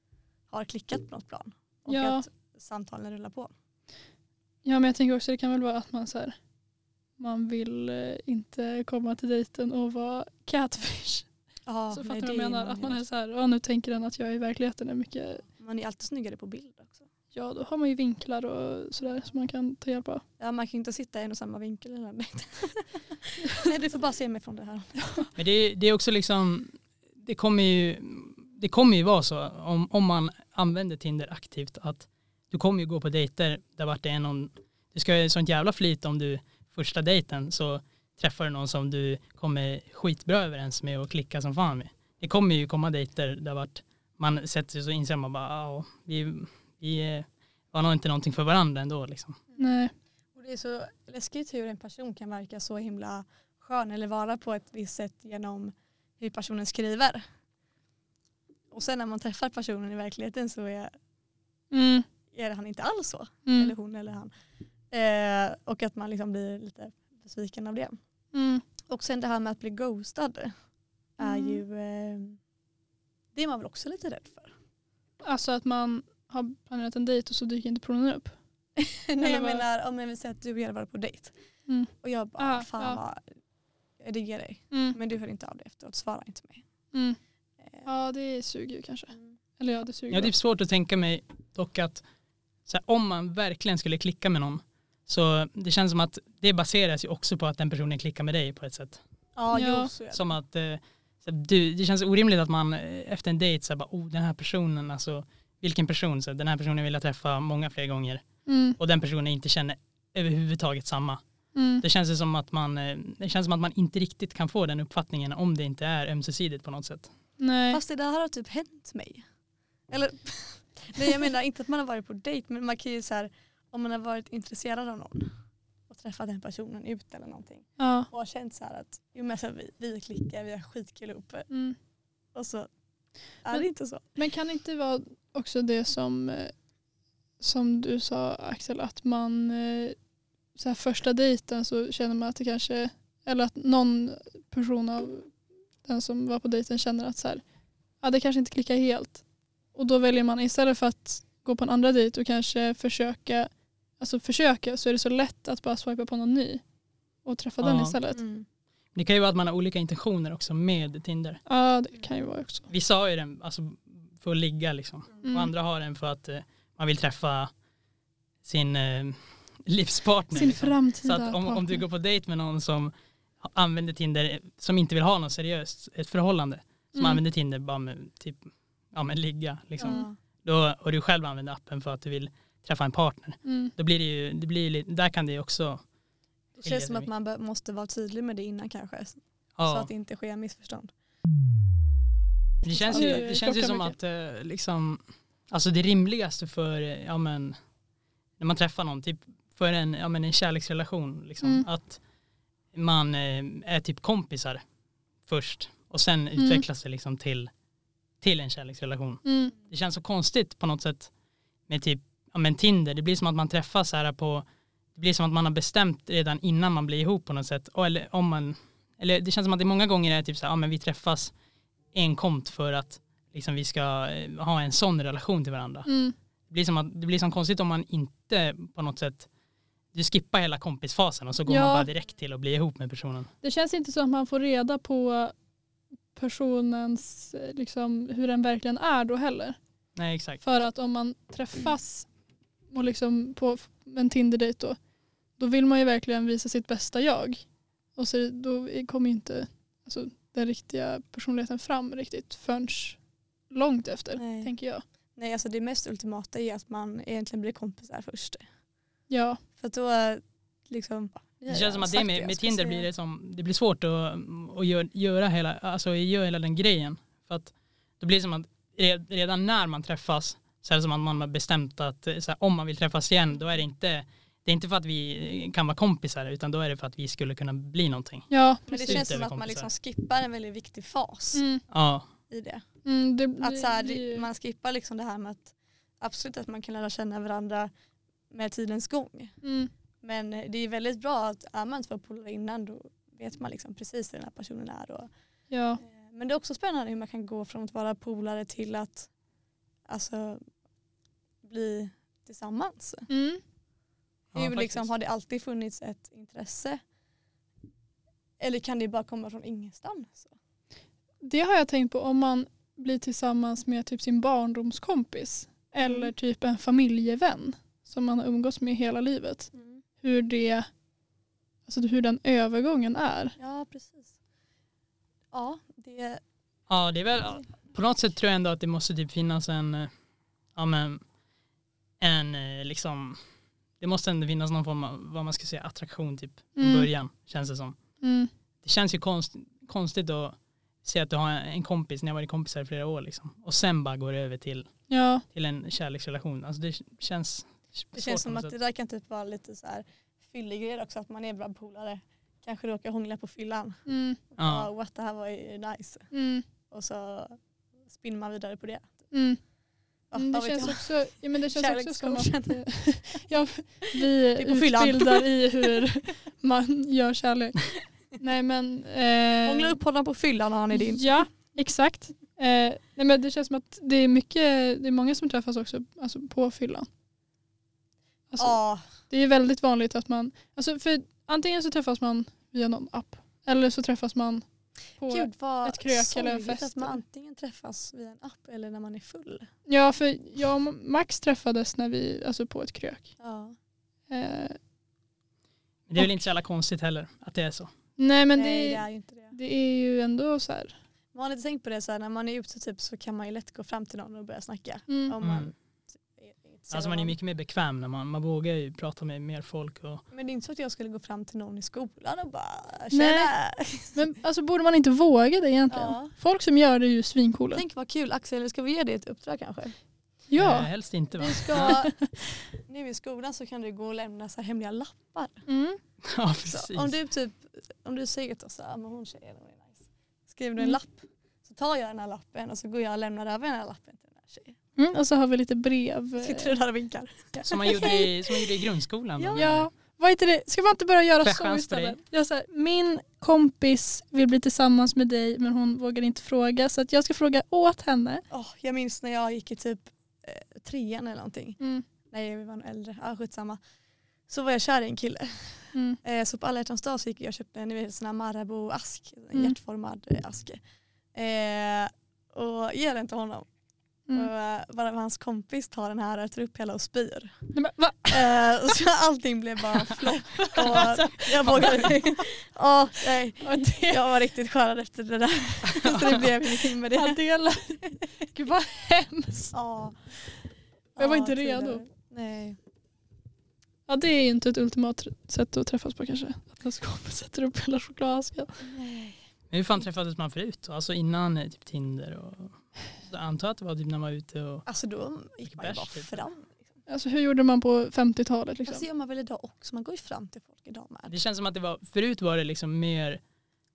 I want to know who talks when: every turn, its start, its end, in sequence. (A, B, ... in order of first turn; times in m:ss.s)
0:00.5-0:03.5 A
0:01.9-0:02.2 B
0:04.6-0:06.4 B
0:07.2-0:11.3 B
0:11.6-0:13.0 A
0:11.9-0:15.4 B
0:15.4-0:17.0 A
0:17.3-0:20.2 B
0:20.4-0:25.2 A
0:25.4-0:49.4 C
0:49.6-0:49.9 B
0:50.3-0:57.2 A
0:58.7-1:00.9 A
1:01.7-1:02.0 B
1:02.3-1:04.3 A
1:03.5-1:03.7 B
1:04.9-1:08.0 A
1:08.3-1:08.6 B
1:08.9-1:10.5 A
1:11.2-1:11.6 B
1:11.2-1:12.4 A
1:13.3-1:14.5 A
1:15.2-1:18.4 B
1:18.8-1:21.3 A
1:19.2-1:19.6 B
1:21.7-1:23.0 B
1:22.0-1:23.2 A
1:24.0-1:26.6 A
1:24.7-1:25.0 B
1:27.6-1:27.9 A
1:27.8-1:30.3 B
1:30.1-1:32.0 C
1:32.6-1:39.0 C
1:39.4-1:40.3 A
1:39.5-1:39.9 B
1:40.1-1:48.2 C
1:48.4-1:48.8 B
1:48.8-1:51.2 C
1:51.5-1:51.8 B
1:51.8-1:57.1 C
1:57.4-1:57.8 B
1:57.7-1:59.2 A
1:59.9-2:05.3 A
2:05.9-2:11.5 A
2:07.8-2:08.1 B
2:11.5-2:11.8 B
2:12.3-2:12.7 A
2:13.4-2:14.0 A
2:14.2-2:16.5 B
2:17.4-2:20.0 B
2:20.6-2:25.3 B
2:25.8-2:27.4 B
2:28.0-2:29.2 B
2:29.7-2:36.6 B
2:37.2-2:38.2 B
2:37.6-2:38.0 C
2:38.1-2:38.4 A
2:38.9-2:41.4 C
2:41.5-2:42.7 B
2:42.7-2:47.5 C
2:45.2-2:45.5 B
2:48.4-3:05.8 C
2:50.3-2:51.8 B
2:56.9-2:57.2 B
2:59.8-3:00.0 B
2:59.8-3:00.2 A
3:03.4-3:03.7 B
3:06.6-3:07.1 C
3:06.6-3:10.9 A
3:09.6-3:09.9 C
3:12.6-3:17.6 C
3:12.7-3:13.3 A
3:12.9-3:13.9 B
3:18.4-3:22.0 C
3:21.4-3:21.7 B
3:22.7-3:24.6 C
3:25.2-3:27.5 C
3:26.4-3:26.6 B
3:28.2-3:31.1 C
3:29.2-3:29.5 B
3:31.7-3:34.4 C
3:35.0-3:41.3 C
3:41.9-3:45.9 C
3:45.8-3:46.1 B
3:46.5-3:49.3 C
3:49.9-3:53.3 C
3:51.5-3:51.9 B
3:53.4-3:55.3 B
3:56.1-3:59.6 B
4:00.0-4:00.4 C
4:00.4-4:02.1 B
4:02.7-4:04.8 B
4:05.4-4:07.4 B
4:08.0-4:13.0 B
4:13.5-4:14.8 B
4:14.2-4:14.5 A
4:15.2-4:18.4 A
4:19.1-4:19.4 B
4:19.6-4:22.9 A
4:21.5-4:39.7 C
4:38.3-4:39.0 B
4:38.7-4:41.4 A
4:41.3-4:41.6 B
4:41.7-4:42.1 C
4:42.3-4:42.6 A
4:42.8-4:44.2 B
4:43.4-4:47.7 A
4:48.3-4:49.3 A
4:49.4-4:49.7 B
4:50.0-4:55.1 A
4:55.5-4:55.8 B
4:55.8-4:59.1 A
4:59.9-5:00.4 A
5:01.4-5:03.1 A
5:03.1-5:03.4 B
5:04.3-5:04.9 C
5:04.3-5:06.8 A
5:08.4-5:10.3 A
5:11.2-5:19.5 B
5:15.8-5:16.1 A
5:19.5-5:19.8 A
5:20.0-5:20.7 B
5:21.7-5:23.4 B
5:23.4-5:24.1 A
5:25.3-5:26.2 A
5:26.7-5:29.9 C
5:30.6-5:31.0 C
5:32.0-5:33.2 C
5:33.8-5:37.8 C
5:36.6-5:36.9 B
5:38.0-5:38.3 B
5:38.6-5:44.7 C
5:44.9-5:45.2 B
5:45.3-5:48.5 C
5:47.9-5:53.8 A
5:53.8-5:54.2 B
5:54.3-5:56.0 A
5:54.4-5:54.7 C
5:56.1-5:56.4 B
5:56.7-5:59.0 A
5:59.1-5:59.4 B
6:00.1-6:02.6 A
6:00.1-6:09.8 B
6:03.9-6:05.8 A
6:09.4-6:11.1 A
6:10.7-6:16.9 B
6:18.3-6:18.6 B
6:18.4-6:18.9 A
6:19.1-6:24.4 B
6:25.0-6:27.0 B
6:25.1-6:29.5 A
6:29.7-6:33.1 B
6:33.2-6:33.5 A
6:34.1-6:34.6 B
6:35.9-6:37.7 C
6:36.0-6:36.3 B
6:38.0-6:40.7 B
6:38.3-6:39.3 A
6:41.1-6:47.2 A
6:44.9-6:45.1 B
6:45.2-6:45.5 C
6:46.7-6:50.0 C
6:50.1-6:54.0 A
6:52.9-6:53.3 B
6:53.9-6:57.6 B
6:55.7-6:56.1 A
6:57.5-6:59.7 A
7:00.3-7:00.7 B
7:00.4-7:01.8 C
7:01.2-7:02.1 B
7:01.2-7:01.9 A
7:02.7-7:05.4 A
7:05.5-7:05.8 B
7:06.0-7:06.9 C
7:06.4-7:14.6 A
7:14.8-7:16.6 B
7:16.2-7:18.1 A
7:17.3-7:18.1 B
7:17.4-7:19.7 C
7:19.2-7:19.5 A
7:19.4-7:28.2 B
7:21.2-7:22.0 C
7:28.3-7:31.6 A
7:32.1-7:33.6 A
7:34.3-7:40.6 A
7:41.1-7:43.4 A
7:44.1-7:47.3 A
7:47.5-7:48.5 B
7:48.1-7:57.2 A
7:50.3-7:52.1 B
7:53.4-7:54.1 B
7:55.8-7:59.5 B
7:59.5-8:00.0 A
8:01.0-8:02.6 A
8:01.0-8:01.8 B
8:03.9-8:08.6 B
8:08.6-8:09.2 A
8:09.5-8:14.6 C
8:14.6-8:16.7 A
8:15.5-8:16.2 C
8:16.9-8:18.8 B
8:18.6-8:21.1 A
8:21.1-8:23.2 C